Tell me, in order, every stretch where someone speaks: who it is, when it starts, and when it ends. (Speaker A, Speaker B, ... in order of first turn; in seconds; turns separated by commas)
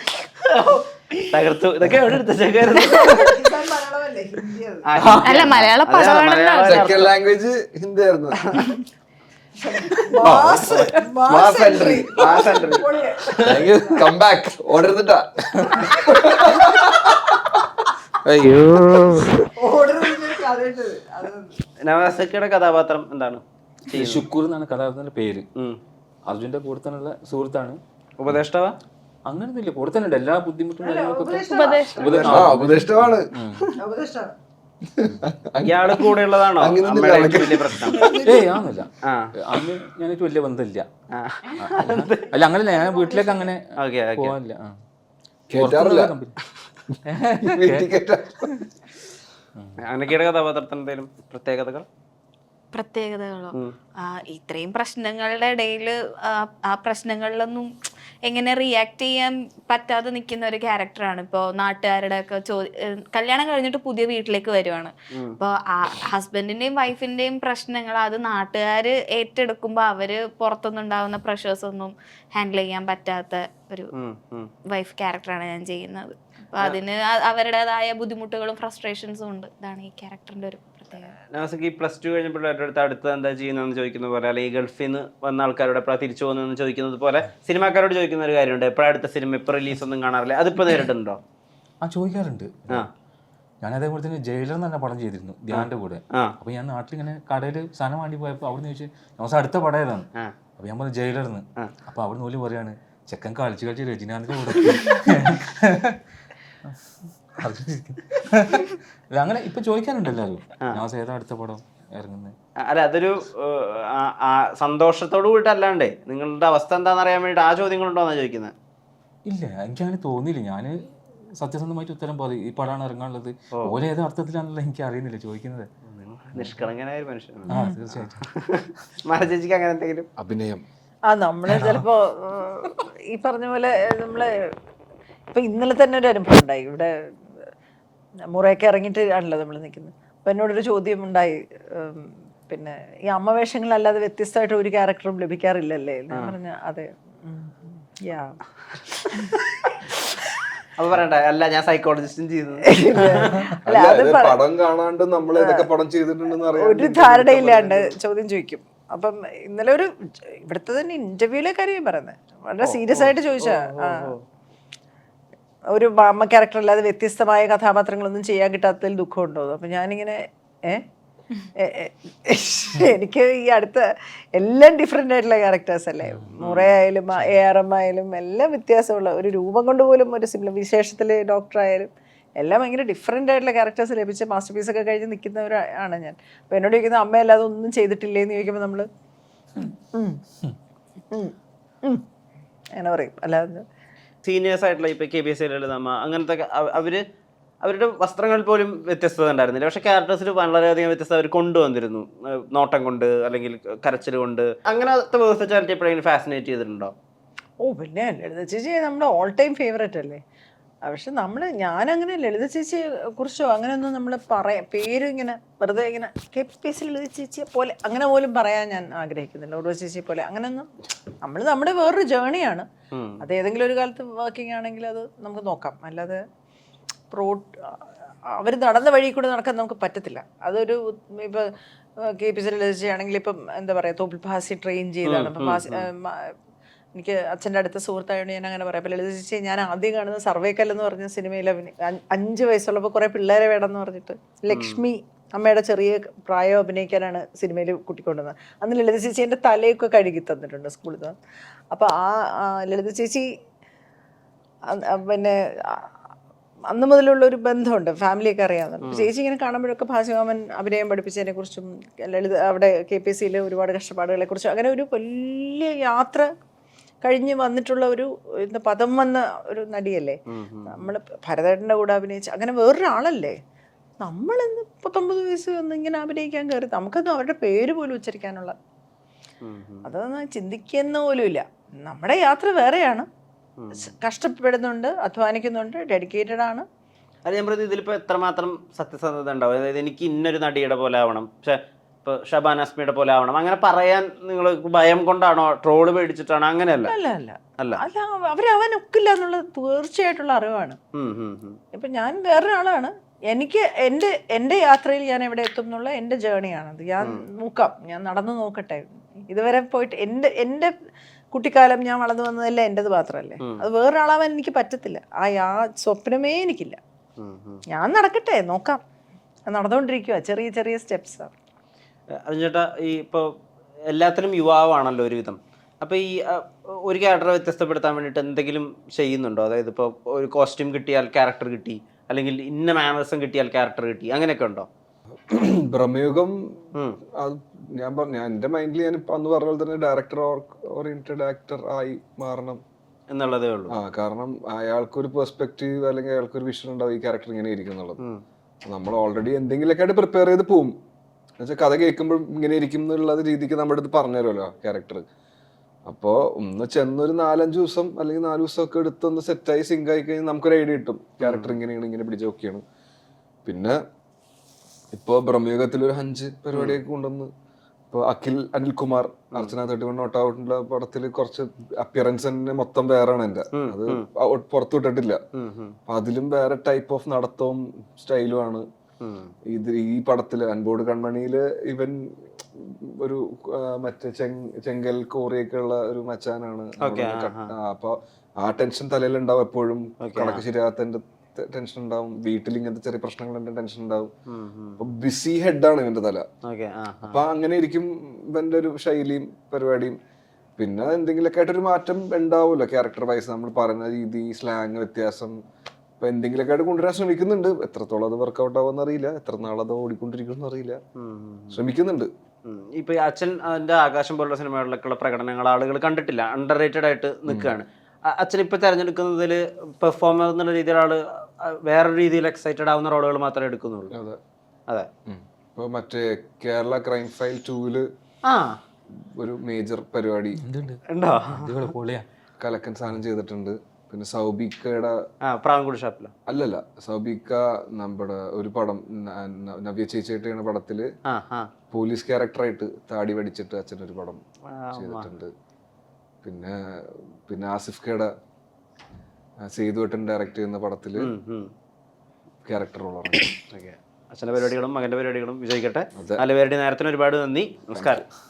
Speaker A: 0.4-3.3, Speaker B: 2.7-4.9, Speaker A: 4.8-7.1, Speaker C: 5.0-5.6, Speaker D: 5.2-6.8, Speaker E: 6.6-8.4, Speaker B: 9.6-14.1, Speaker E: 10.2-12.3, Speaker A: 11.8-13.5, Speaker E: 13.4-17.1, Speaker C: 18.2-19.3, Speaker B: 19.6-21.5, Speaker A: 21.8-24.2, Speaker C: 23.9-25.4, Speaker C: 26.3-27.8, Speaker A: 28.2-28.7, Speaker C: 29.2-33.7, Speaker B: 30.8-32.5, Speaker D: 31.5-32.0, Speaker E: 32.0-33.3, Speaker B: 33.8-34.3, Speaker E: 34.9-38.2, Speaker A: 35.6-38.0, Speaker B: 37.9-38.6, Speaker C: 38.2-40.9, Speaker A: 39.0-39.3, Speaker A: 41.1-42.3, Speaker C: 41.6-44.8, Speaker B: 42.3-43.5, Speaker A: 43.8-44.4, Speaker E: 45.5-46.1, Speaker C: 45.6-46.3, Speaker C: 47.0-47.9, Speaker E: 47.4-48.5, Speaker C: 49.5-49.8, Speaker A: 49.8-51.9, Speaker D: 52.7-57.7, Speaker D: 58.3-73.9, Speaker A: 65.1-65.4, Speaker A: 73.9-74.5, Speaker D: 74.7-81.1, Speaker A: 81.3-91.2, Speaker C: 91.8-92.9, Speaker C: 93.6-106.0, Speaker A: 95.5-96.3, Speaker C: 106.6-112.3, Speaker A: 112.6-118.5, Speaker C: 119.2-120.8, Speaker C: 121.4-125.7, Speaker A: 125.8-130.1, Speaker C: 127.5-128.2, Speaker E: 130.2-130.6, Speaker B: 131.1-134.3, Speaker C: 131.5-131.8, Speaker B: 135.3-136.9, Speaker B: 138.3-148.4, Speaker B: 149.1-150.4, Speaker A: 150.8-153.4, Speaker B: 152.7-154.4, Speaker E: 153.7-157.9, Speaker B: 155.4-155.7, Speaker B: 156.5-164.1, Speaker A: 162.6-164.2, Speaker B: 165.7-170.8, Speaker B: 171.6-188.9, Speaker A: 176.4-176.7, Speaker B: 189.9-190.2, Speaker B: 191.1-192.0, Speaker B: 192.8-193.6, Speaker A: 194.2-197.0, Speaker A: 197.6-206.9, Speaker B: 207.6-210.2, Speaker B: 210.8-220.7, Speaker B: 221.2-222.7, Speaker A: 222.9-223.2, Speaker B: 223.2-226.2, Speaker B: 227.1-227.5, Speaker B: 228.3-236.3, Speaker A: 235.0-235.9, Speaker B: 236.9-251.1, Speaker A: 244.5-244.8, Speaker B: 251.7-253.3, Speaker B: 254.7-255.9, Speaker B: 256.7-266.3, Speaker A: 258.8-259.1, Speaker B: 267.0-273.4, Speaker A: 270.3-270.9, Speaker B: 274.0-278.6, Speaker A: 279.4-279.8, Speaker B: 279.8-283.1, Speaker A: 283.6-283.9, Speaker B: 283.8-286.6, Speaker A: 287.2-296.9, Speaker B: 296.8-300.8, Speaker A: 300.9-301.6, Speaker B: 301.7-310.7, Speaker B: 311.3-316.8, Speaker A: 317.2-317.6, Speaker B: 317.7-318.8, Speaker B: 319.5-321.3, Speaker A: 322.1-323.3, Speaker A: 323.9-334.7, Speaker E: 335.3-336.6, Speaker A: 336.7-337.0, Speaker E: 337.1-342.6, Speaker A: 343.1-343.8, Speaker E: 343.7-348.0, Speaker E: 348.6-350.7, Speaker E: 351.4-355.0, Speaker E: 355.9-362.6, Speaker A: 361.2-361.6, Speaker E: 363.4-363.8, Speaker E: 364.9-367.3, Speaker E: 367.9-375.2, Speaker A: 373.5-374.1, Speaker A: 375.3-375.8, Speaker E: 375.9-378.6, Speaker A: 379.0-379.3, Speaker E: 379.5-394.1, Speaker A: 386.8-387.5, Speaker A: 390.0-390.4, Speaker A: 394.3-394.8, Speaker E: 394.8-396.2, Speaker A: 396.4-397.2, Speaker E: 397.0-400.0, Speaker E: 400.6-405.3, Speaker E: 406.0-410.8, Speaker A: 411.0-411.6, Speaker E: 411.5-412.1, Speaker A: 412.4-423.9, Speaker E: 417.3-417.5, Speaker E: 423.9-424.2, Speaker E: 425.1-427.9, Speaker A: 428.3-428.6, Speaker E: 429.0-430.4, Speaker C: 430.4-432.1, Speaker A: 430.9-431.6, Speaker E: 432.4-435.0, Speaker A: 435.2-436.1, Speaker E: 436.3-440.9, Speaker A: 441.1-441.5, Speaker E: 441.7-444.2, Speaker A: 444.5-445.1, Speaker E: 444.7-445.3, Speaker E: 446.2-448.1, Speaker E: 449.4-451.1, Speaker A: 451.0-451.5, Speaker E: 452.4-453.3, Speaker A: 453.5-458.0, Speaker E: 455.9-456.2, Speaker E: 457.7-458.0